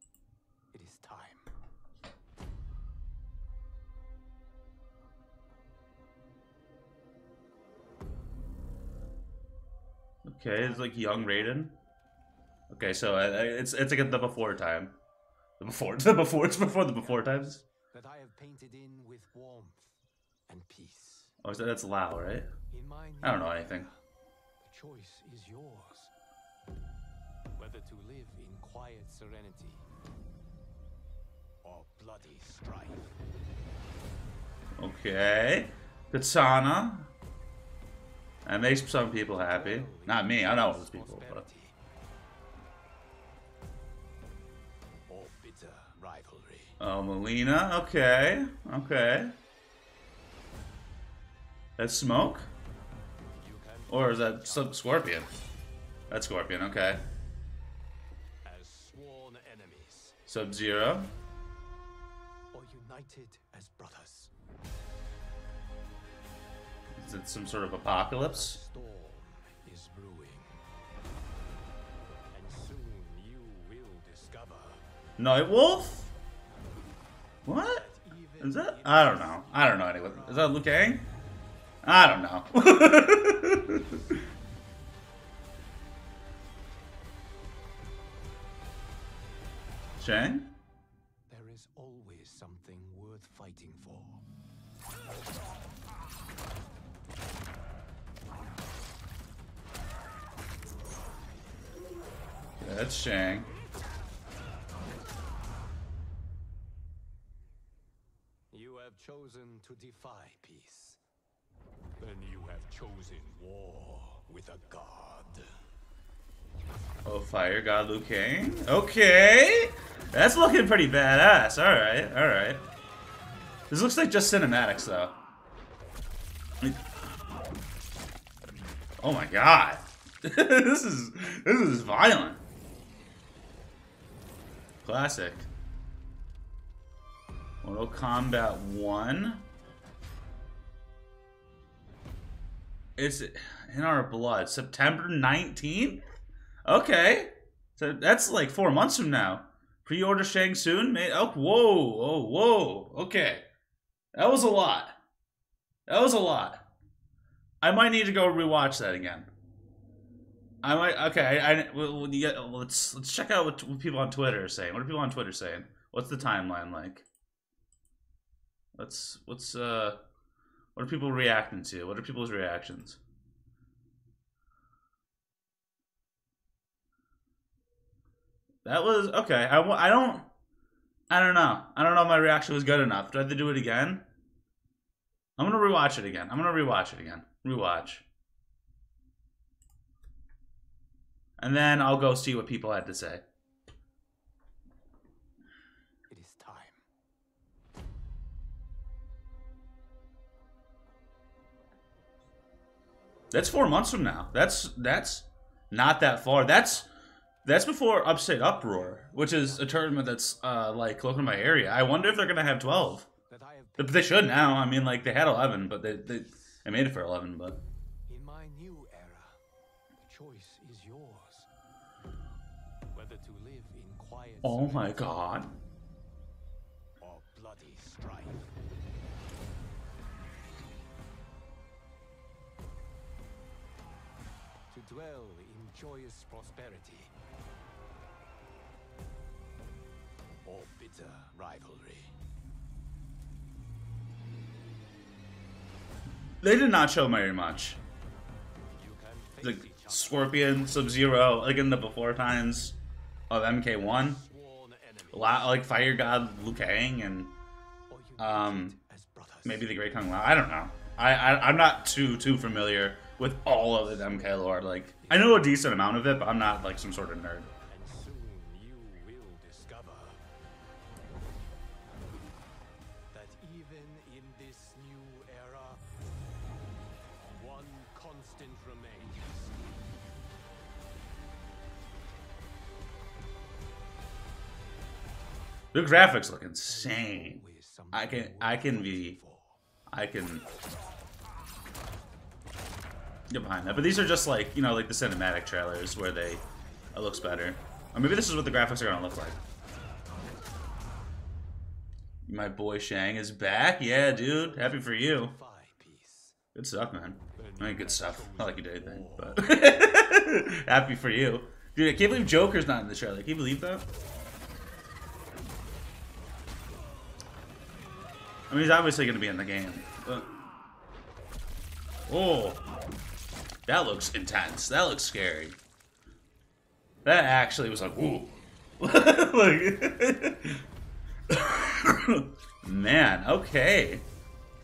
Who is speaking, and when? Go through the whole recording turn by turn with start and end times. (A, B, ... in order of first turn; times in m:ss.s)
0:00.7-0:01.4 A
0:10.2-0:11.7 B
0:10.5-0:11.7 A
0:12.7-0:14.9 B
0:15.6-0:17.6 B
0:16.9-0:21.3 A
0:21.4-0:22.5 B
0:22.7-0:24.0 A
0:23.2-0:23.9 B
0:24.6-0:26.1 A
0:27.6-0:29.9 A
0:31.6-0:33.2 A
0:34.8-0:37.1 B
0:38.4-0:41.4 B
0:39.1-0:41.8 A
0:45.1-0:46.8 A
0:46.8-0:49.3 B
0:51.8-0:52.5 B
0:53.4-0:55.2 A
0:53.9-0:55.3 B
0:56.1-0:57.0 B
0:58.4-1:00.2 A
1:00.3-1:01.1 B
1:02.5-1:04.3 A
1:07.0-1:08.6 B
1:08.2-1:10.6 A
1:12.3-1:14.8 A
1:15.2-1:16.1 B
1:17.4-1:17.8 B
1:17.7-1:20.8 A
1:18.4-1:21.1 B
1:21.8-1:23.9 B
1:30.0-1:30.5 B
1:31.3-1:34.2 A
1:42.6-1:43.5 B
1:48.5-1:51.0 A
1:52.0-1:55.5 A
1:57.0-2:02.6 B
2:03.7-2:05.2 B
2:09.0-2:12.4 B
2:14.8-2:15.5 B
2:17.6-2:19.4 B
2:23.0-2:26.0 B
2:26.6-2:33.4 B
2:34.1-2:35.0 B
2:35.9-2:36.6 B
2:37.6-2:39.3 B
2:40.6-2:47.0 B
2:48.7-2:50.0 B
2:50.8-2:53.0 B
2:58.6-3:00.2 B
3:01.1-3:04.0 B
3:05.4-3:08.0 B
3:11.4-3:13.2 B
3:16.1-3:16.8 A
3:23.3-3:26.9 B
3:26.6-3:26.9 A
3:27.4-3:33.1 B
3:28.3-3:30.1 A
3:33.3-3:34.5 A
3:33.8-3:37.6 B
3:35.7-3:36.6 A
3:38.1-3:39.4 A
3:40.0-3:41.5 A
3:42.9-3:45.2 A
3:44.4-3:45.5 B
3:47.0-3:48.5 A
3:54.7-3:57.1 A
4:00.4-4:02.1 A
4:06.4-4:07.8 B
4:08.8-4:11.1 A
4:09.4-4:12.8 B
4:13.3-4:14.2 B
4:13.8-4:15.6 A
4:15.1-4:17.3 B
4:17.9-4:19.8 A
4:18.2-4:18.8 B
4:19.4-4:27.5 B
4:23.6-4:25.8 A
4:27.7-4:30.2 A
4:33.1-4:35.8 A
4:37.3-4:39.6 A
4:45.7-4:47.4 B
4:46.6-4:49.6 A
4:47.9-4:49.2 B
4:49.9-4:50.5 B
4:53.3-4:59.4 B
5:02.2-5:05.3 B
5:03.8-5:06.4 A
5:06.5-5:13.8 B
5:07.3-5:09.6 A
5:18.5-5:20.3 B
5:22.1-5:22.6 B
5:23.7-5:25.6 B
5:27.0-5:30.6 B
5:31.3-5:34.0 B